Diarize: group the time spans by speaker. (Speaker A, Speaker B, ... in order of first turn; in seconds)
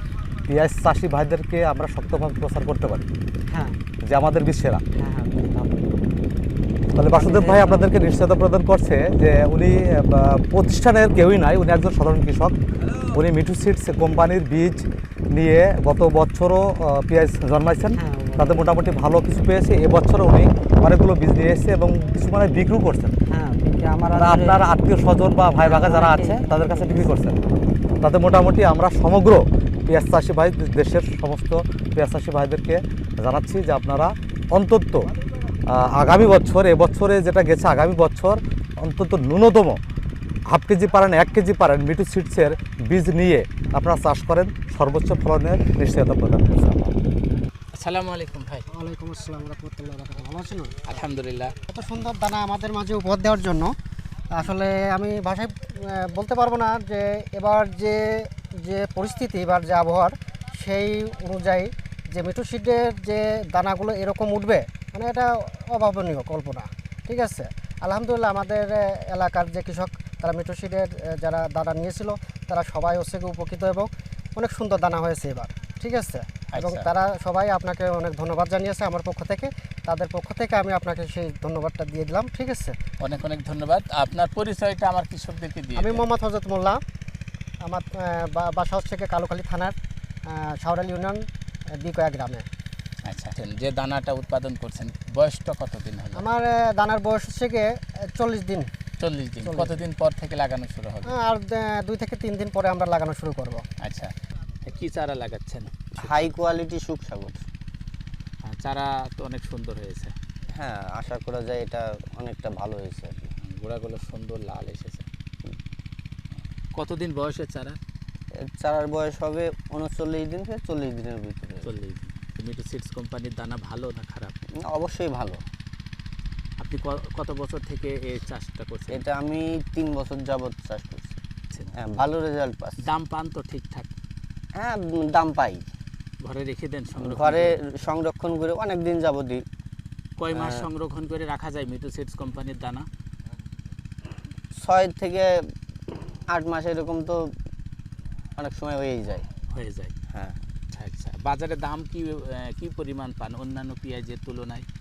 Speaker A: 0.4-3.1, 4.0-4.8, 6.9-23.2, 24.2-27.4, 28.0-35.1, 35.7-39.8, 40.5-46.9
Speaker B: 3.5-3.8, 5.0-5.9, 7.1-7.8, 17.9-18.9, 23.3-24.6, 25.6-27.1
Speaker C: 47.7-48.6, 50.9-51.5, 76.5-76.9, 83.0-86.0, 93.0-96.2, 99.0-101.2, 103.8-106.3, 108.4-110.1, 113.4-115.0, 116.7-117.8, 121.6-124.3, 126.6-129.0, 132.8-133.9, 136.2-137.6, 140.2-142.9, 149.5-149.9, 150.7-154.7
Speaker D: 48.7-50.8, 51.7-53.8, 54.3-82.8, 85.8-86.8, 87.6-92.5, 96.1-98.7, 99.4-99.8, 101.0-103.6
Speaker E: 106.0-107.4, 110.5-113.3, 118.4-121.7, 124.6-125.4, 128.9-131.2, 131.8-132.8, 134.6-135.7, 137.0-139.4, 140.3-140.7, 144.5-145.4, 146.3-147.2, 148.3-149.3, 150.1-150.4